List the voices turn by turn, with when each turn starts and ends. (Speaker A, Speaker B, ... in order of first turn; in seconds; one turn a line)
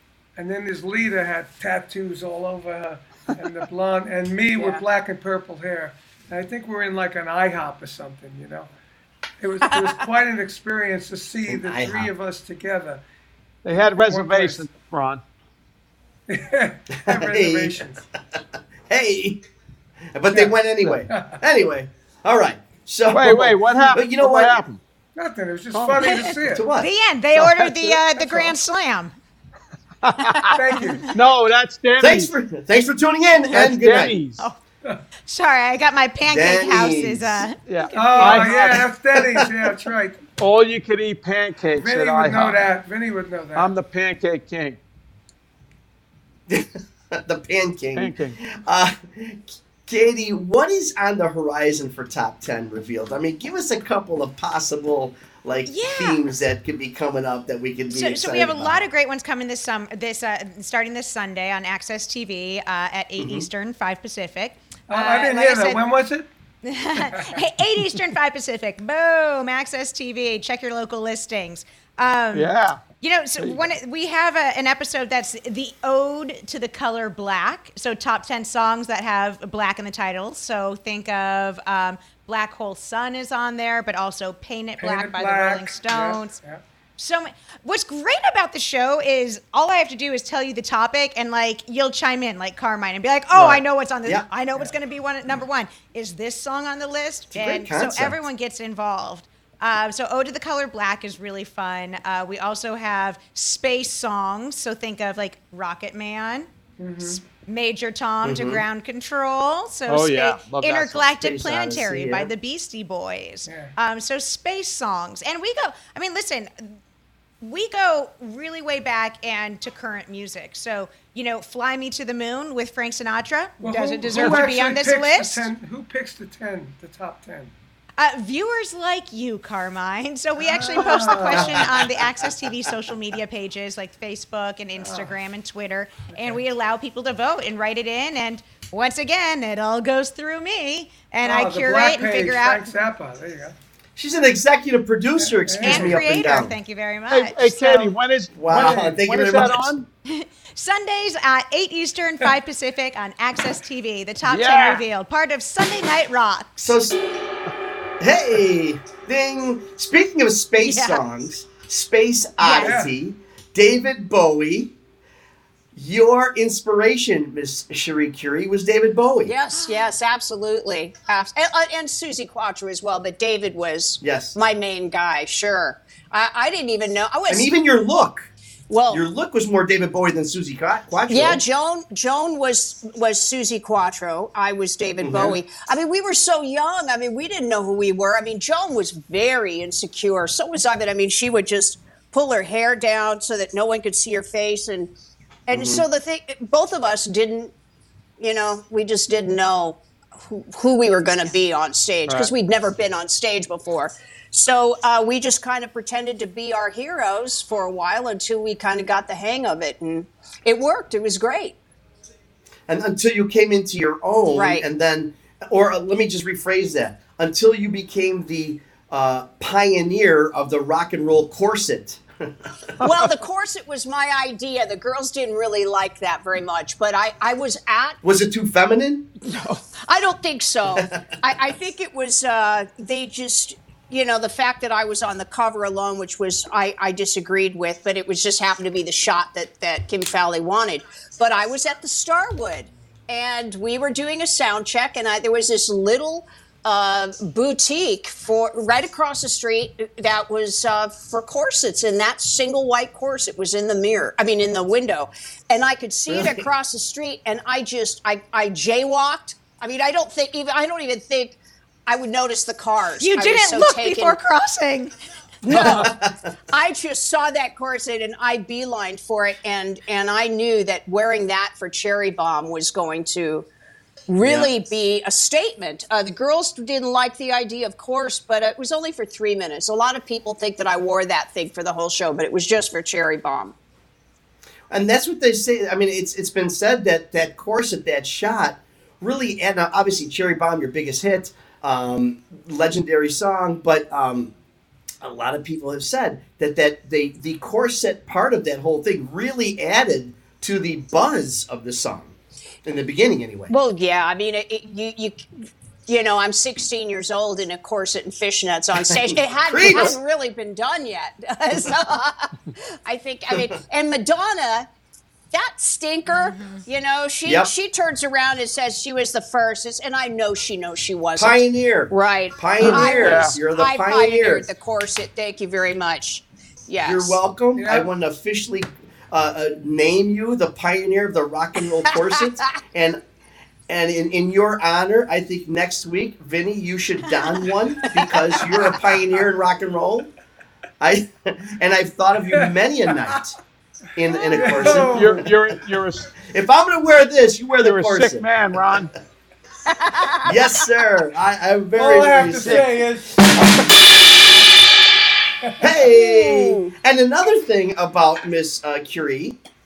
Speaker A: 0.3-8.7
Speaker B: 4.5-4.8
Speaker A: 9.4-13.0
Speaker B: 9.6-10.0
Speaker C: 11.5-12.1
Speaker D: 13.6-15.2
Speaker A: 13.8-14.7
Speaker A: 16.3-18.0
Speaker C: 17.0-19.4
Speaker C: 20.1-24.6
Speaker A: 20.3-21.4
Speaker D: 23.1-24.8
Speaker A: 25.1-26.6
Speaker D: 25.7-26.3
Speaker E: 26.1-29.1
Speaker C: 26.4-27.7
Speaker D: 30.0-32.3
Speaker A: 30.5-31.1
Speaker C: 32.0-34.2
Speaker D: 33.5-34.4
Speaker E: 35.3-38.5
Speaker C: 36.3-37.5
Speaker D: 37.7-38.9
Speaker A: 37.9-40.3
Speaker D: 40.4-42.7
Speaker A: 41.7-43.7
Speaker D: 43.5-44.8
Speaker C: 46.5-58.8
Speaker D: 48.0-48.4
Speaker E: 55.7-56.2
Speaker E: 57.9-65.8
Speaker C: 63.2-63.5
Speaker A: 64.9-66.3
Speaker E: 66.6-72.5
Speaker A: 67.1-67.4
Speaker D: 72.3-72.8
Speaker E: 73.0-86.4
Speaker D: 73.4-73.6
Speaker A: 84.8-86.6
Speaker E: 87.0-106.5
Speaker C: 93.3-94.3
Speaker C: 97.3-98.2
Speaker A: 106.8-107.2
Speaker E: 107.0-116.8
Speaker C: 108.2-108.6
Speaker D: 109.9-111.1
Speaker C: 111.2-112.3
Speaker A: 113.5-113.7
Speaker E: 117.4-125.5
Speaker A: 123.6-127.5
Speaker E: 128.0-142.7
Speaker A: 130.4-131.7
Speaker C: 131.3-132.7
Speaker A: 134.8-135.1
Speaker A: 141.2-143.6
Speaker C: 143.9-146.6
Speaker A: 145.2-146.0
Speaker E: 145.6-147.9
Speaker D: 147.1-149.9
Speaker C: 148.3-149.7
Speaker A: 148.5-149.0
Speaker E: 150.1-156.8
Speaker D: 154.2-154.8
Speaker C: 156.6-157.0
Speaker C: 158.0-164.7
Speaker E: 160.6-161.0
Speaker E: 162.4-162.7
Speaker A: 162.6-162.9
Speaker C: 165.7-169.3
Speaker B: 169.2-177.5
Speaker C: 174.0-174.3
Speaker C: 177.3-178.3
Speaker B: 178.7-179.0
Speaker C: 178.9-181.4
Speaker B: 181.1-194.9
Speaker C: 185.0-185.4
Speaker B: 195.5-197.5
Speaker C: 195.5-195.8
Speaker B: 198.2-211.6
Speaker C: 212.7-222.8
Speaker B: 214.3-214.7
Speaker B: 222.8-228.0
Speaker C: 228.0-229.1
Speaker D: 229.2-229.6
Speaker B: 229.8-264.2
Speaker C: 256.1-256.4
Speaker E: 263.0-264.9
Speaker B: 265.4-265.9
Speaker C: 265.5-266.1
Speaker D: 265.5-265.8
Speaker B: 266.5-273.5
Speaker B: 274.1-283.5
Speaker C: 274.2-274.5
Speaker C: 284.7-294.3
Speaker C: 295.0-303.5
Speaker B: 303.5-314.7
Speaker C: 308.8-310.0
Speaker B: 315.3-327.2
Speaker E: 316.1-316.6
Speaker C: 317.2-317.5
Speaker C: 321.2-324.5
Speaker D: 322.6-323.3
Speaker C: 326.8-333.0
Speaker A: 327.6-327.9
Speaker B: 331.9-332.3
Speaker C: 333.7-340.1
Speaker C: 340.8-343.4
Speaker C: 343.9-345.5
Speaker A: 344.2-345.2
Speaker D: 344.6-346.1
Speaker C: 346.2-348.9
Speaker D: 347.6-348.9
Speaker B: 349.7-350.3
Speaker C: 350.2-352.8
Speaker A: 351.8-353.8
Speaker C: 353.4-353.7
Speaker C: 355.6-359.4
Speaker B: 355.9-356.7